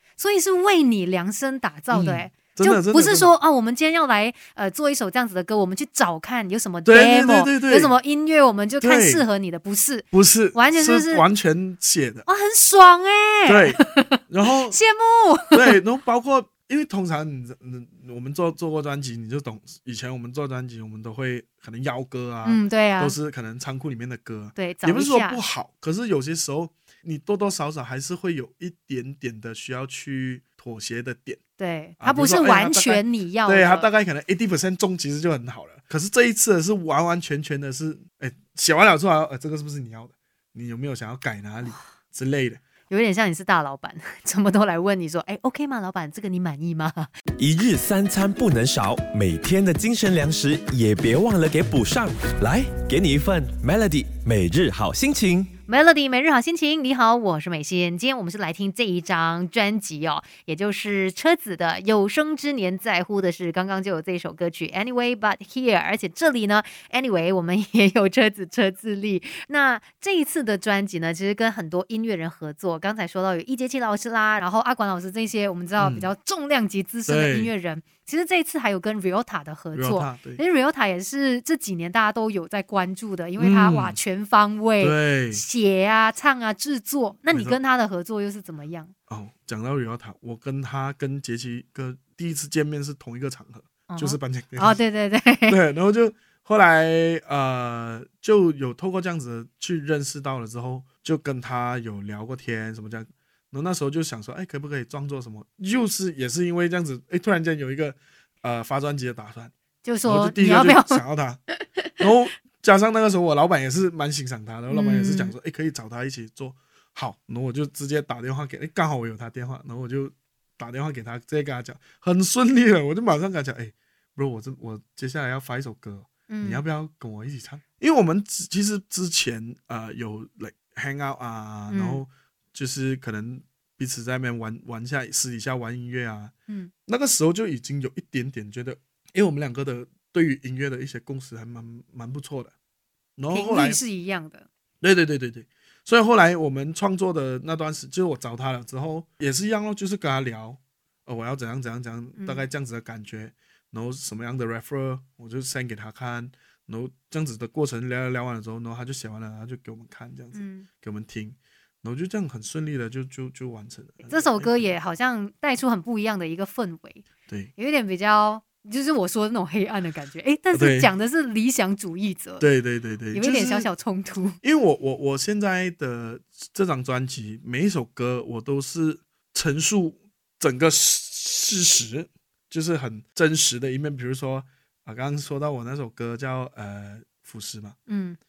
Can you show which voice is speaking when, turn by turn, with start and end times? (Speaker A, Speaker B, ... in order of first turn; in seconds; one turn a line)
Speaker A: 0.2-11.2
Speaker B: 1.9-3.3
Speaker B: 6.8-7.9
Speaker B: 8.8-9.2
Speaker B: 10.1-12.3
Speaker A: 12.3-14.2
Speaker B: 13.5-14.8
Speaker A: 14.7-15.8
Speaker B: 15.5-31.4
Speaker A: 22.4-23.2
Speaker A: 24.6-25.4
Speaker A: 31.6-33.9
Speaker B: 32.0-42.6
Speaker A: 42.9-47.1
Speaker C: 47.4-55.5
Speaker A: 55.7-88.9
Speaker B: 75.8-76.1
Speaker B: 77.1-77.5
Speaker B: 79.7-80.4
Speaker B: 83.4-84.0
Speaker B: 84.8-85.5
Speaker B: 87.3-87.6
Speaker B: 89.1-94.8
Speaker A: 93.9-95.6
Speaker B: 95.5-109.5
Speaker A: 109.8-111.0
Speaker B: 110.0-111.4
Speaker B: 112.0-136.3
Speaker A: 114.7-115.3
Speaker A: 126.3-126.7
Speaker A: 131.7-132.0
Speaker B: 136.9-142.5
Speaker B: 143.2-143.8
Speaker A: 143.3-144.5
Speaker B: 144.8-164.7
Speaker A: 152.2-152.4
Speaker A: 160.3-160.7
Speaker A: 164.1-172.5
Speaker B: 170.5-170.9
Speaker B: 172.4-173.7
Speaker A: 173.1-174.4
Speaker B: 174.4-187.8
Speaker A: 187.9-188.2